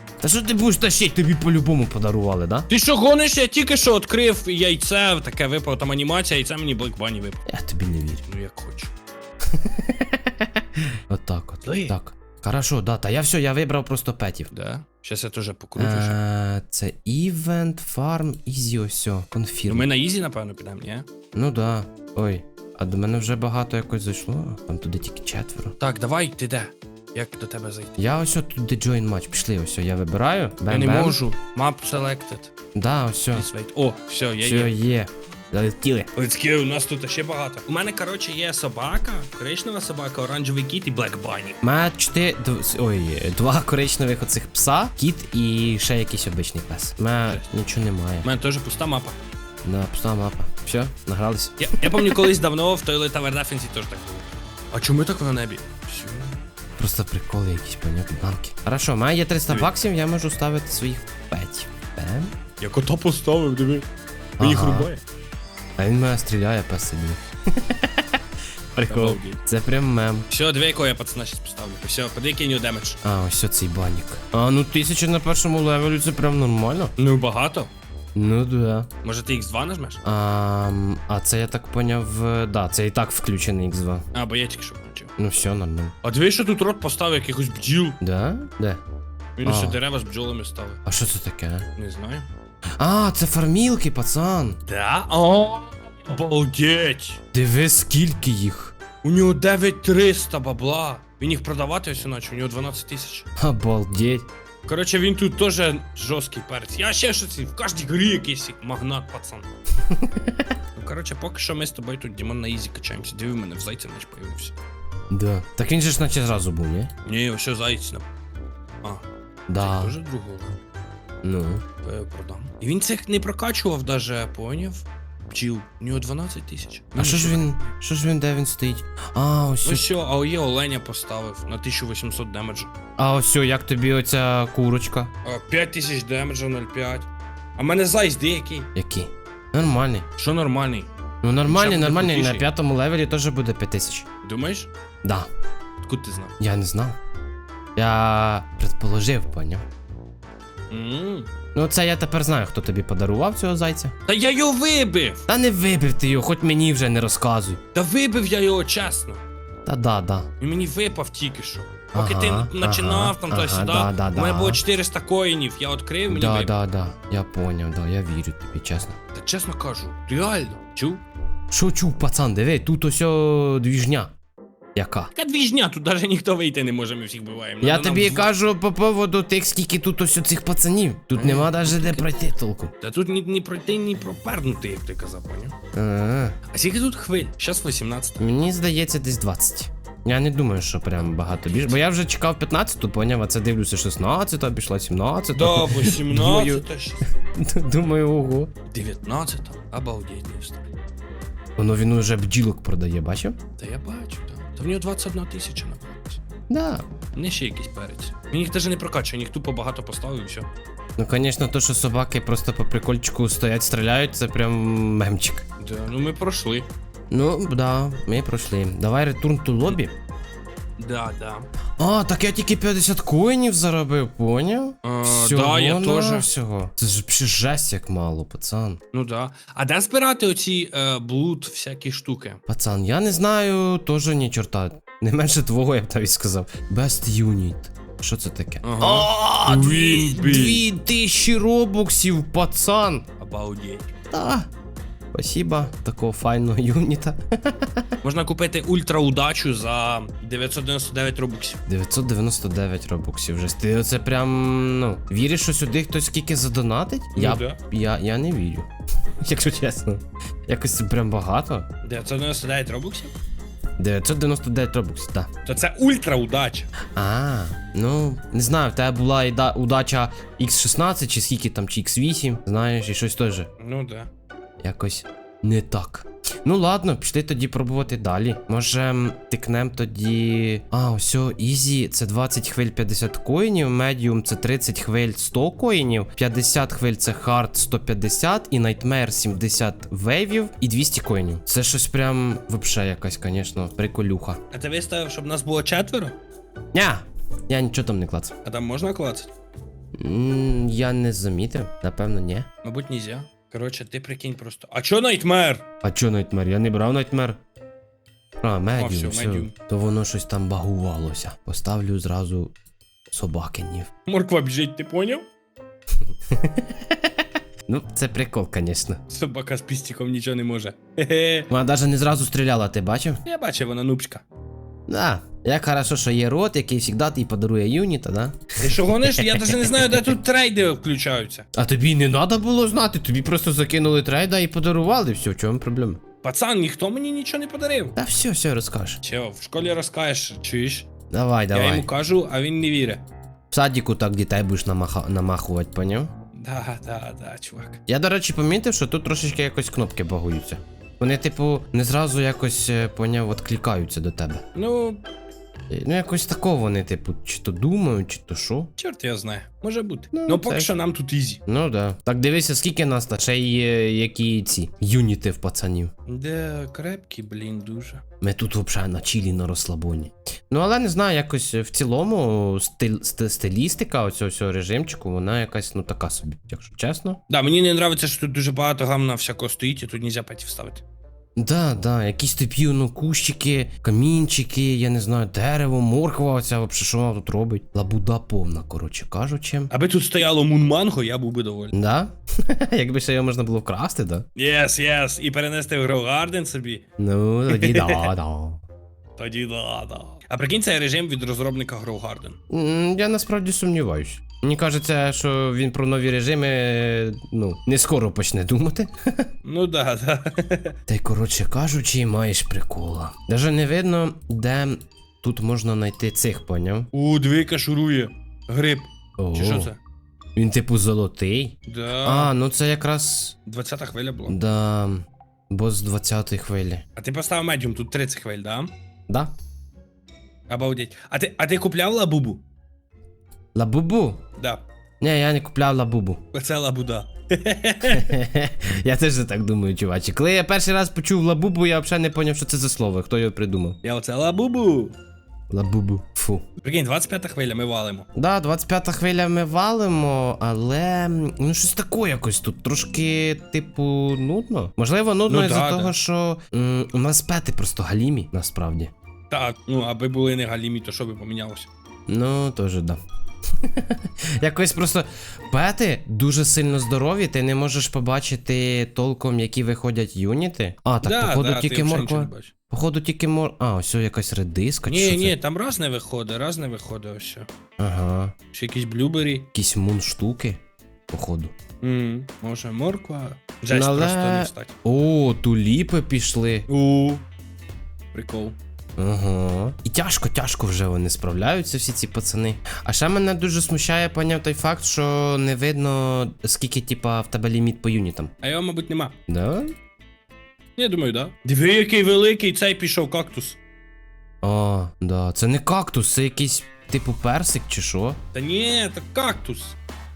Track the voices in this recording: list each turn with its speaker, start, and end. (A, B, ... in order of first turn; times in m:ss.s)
0:00.2-0:02.7 A
0:02.7-0:07.4 B
0:07.5-0:08.2 A
0:08.2-0:08.9 B
0:09.5-0:14.5 A
0:11.6-0:11.9 B
0:14.5-0:16.2 B
0:15.8-0:19.9 A
0:19.7-0:21.1 B
0:21.3-0:25.8 A
0:25.8-0:28.0 B
0:28.0-0:31.2 A
0:30.7-0:32.5 B
0:32.8-0:33.5 A
0:33.3-0:34.8 B
0:34.4-0:36.1 A
0:36.2-0:41.6 B
0:41.6-0:48.3 A
0:48.2-0:49.2 B
0:49.6-0:52.3 A
0:51.6-0:56.4 B
0:56.8-1:02.3 A
1:02.6-1:03.9 B
1:04.4-1:04.9 A
1:04.4-1:05.0 B
1:05.8-1:08.2 A
1:08.8-1:10.3 A
1:08.9-1:09.4 B
1:10.3-1:13.0 B
1:13.0-1:16.9 A
1:17.0-1:17.7 B
1:18.2-1:18.9 A
1:19.0-1:20.0 B
1:20.0-1:24.0 A
1:24.1-1:25.1 B
1:25.2-1:25.9 A
1:26.0-1:28.0 B
1:28.0-1:28.8 A
1:29.4-1:30.8 B
1:29.4-1:29.8 A
1:30.9-1:31.7 A
1:31.8-1:32.3 B
1:32.8-1:34.6 A
1:34.7-1:37.2 B
1:37.3-1:38.7 A
1:39.0-1:43.3 B
1:43.4-1:44.3 A
1:44.7-1:49.5 B
1:49.9-1:50.5 A
1:50.8-1:54.6 B
1:55.1-1:56.9 A
1:57.0-1:58.1 B
1:59.5-2:00.0 A
1:59.6-2:00.6 B
2:01.2-2:01.6 A
2:01.8-2:07.6 B
2:07.0-2:09.9 A
2:09.6-2:12.7 B
2:13.0-2:15.1 A
2:15.2-2:18.7 B
2:18.8-2:20.1 A
2:20.2-2:20.9 B
2:21.2-2:24.0 A
2:21.5-2:22.4 B
2:24.2-2:24.7 B
2:25.8-2:26.3 B
2:26.4-2:27.0 A
2:27.8-2:29.6 A
2:30.7-2:31.3 B
2:31.5-2:33.9 A
2:34.1-2:35.2 B
2:35.3-2:37.6 A
2:37.7-2:39.2 B
2:39.6-2:40.3 A
2:40.4-2:46.5 B
2:41.9-2:44.6 A
2:46.1-2:49.0 A
2:49.1-2:51.0 B
2:51.5-2:54.1 A
2:54.8-2:55.1 A
2:55.2-2:58.3 B
2:57.6-3:02.7 A
3:01.2-3:02.2 B
3:02.8-3:05.5 B
3:05.7-3:06.4 A
3:06.5-3:08.2 B
3:08.2-3:18.5 A
3:15.3-3:17.1 B
3:18.7-3:20.6 B
3:21.6-3:23.4 A
3:23.6-3:26.2 B
3:26.5-3:26.9 A
3:27.2-3:30.5 B
3:31.0-3:35.4 A
3:35.6-3:36.7 B
3:37.1-3:39.9 A
3:40.8-3:41.5 B
3:41.8-3:48.8 A
3:44.8-3:46.3 B
3:48.9-3:52.4 B
3:52.5-4:03.0 A
3:58.6-4:00.6 B
4:03.2-4:03.9 B
4:04.1-4:04.5 A
4:05.1-4:07.9 A
4:08.0-4:11.6 B
4:11.7-4:18.7 A
4:17.2-4:17.6 B
4:19.2-4:21.7 A
4:21.8-4:23.1 B
4:23.8-4:25.3 A
4:25.4-4:26.7 B
4:27.0-4:33.5 A
4:33.6-4:34.1 B
4:34.6-4:54.4 A
4:54.5-4:56.2 B
4:56.7-4:58.3 A
4:58.4-4:59.3 B
5:00.0-5:02.5 A
5:02.6-5:05.6 B
5:05.8-5:07.4 A
5:08.4-5:12.6 A
5:08.8-5:09.5 B
5:13.1-5:13.9 A
5:14.1-5:15.2 B
5:16.3-5:17.1 A
5:17.7-5:19.0 A
5:19.1-5:21.5 B
5:21.5-5:23.2 A
5:23.2-5:24.2 B
5:24.9-5:30.2 A
5:28.6-5:31.4 B
5:31.5-5:36.0 A
5:36.2-5:38.0 B
5:38.0-5:39.0 A
5:39.0-5:40.9 B
5:41.1-5:41.9 A
5:41.5-5:43.0 B
5:43.5-5:46.1 A
5:46.4-5:47.8 B
5:47.9-5:54.4 A
5:54.6-5:55.0 B
5:55.7-5:58.7 A
5:58.8-6:01.4 B
6:00.1-6:00.7 A
6:01.5-6:05.9 A
6:06.1-6:08.0 B
6:08.2-6:17.2 A
6:17.3-6:20.8 B
6:21.4-6:29.7 A
6:29.7-6:31.8 B
6:31.7-6:34.3 A
6:34.4-6:36.8 B
6:37.0-6:38.6 A
6:37.5-6:38.1 B
6:39.2-6:42.4 B
6:42.5-6:49.3 A
6:49.4-6:50.8 B
6:50.9-6:56.9 A
6:56.9-6:59.8 B
6:59.2-6:59.7 A
7:00.4-7:03.4 A
7:01.7-7:02.3 B
7:03.5-7:04.4 B
7:04.3-7:06.8 A
7:07.0-7:08.7 B
7:10.5-7:12.4 B
7:13.6-7:14.2 A
7:14.4-7:14.6 B
7:15.0-7:16.2 A
7:16.3-7:18.2 B
7:17.9-7:23.8 A
7:23.8-7:25.0 B
7:25.5-7:26.4 A
7:26.6-7:28.1 B
7:28.2-7:38.9 A
7:35.3-7:35.9 B
7:39.3-7:41.7 B
7:42.1-7:43.0 A
7:43.6-7:55.4 A
7:51.0-7:52.5 B
7:54.9-7:57.5 B
7:57.8-7:58.3 A
7:58.5-7:59.5 B
7:59.5-8:00.6 A
8:01.1-8:01.5 A
8:01.8-8:04.8 B
8:03.7-8:06.7 A
8:06.7-8:07.2 B
8:08.1-8:08.6 B
8:09.0-8:18.3 A
8:18.4-8:19.1 B
8:19.3-8:19.7 A
8:20.8-8:23.6 B
8:24.4-8:28.2 A
8:28.3-8:29.8 B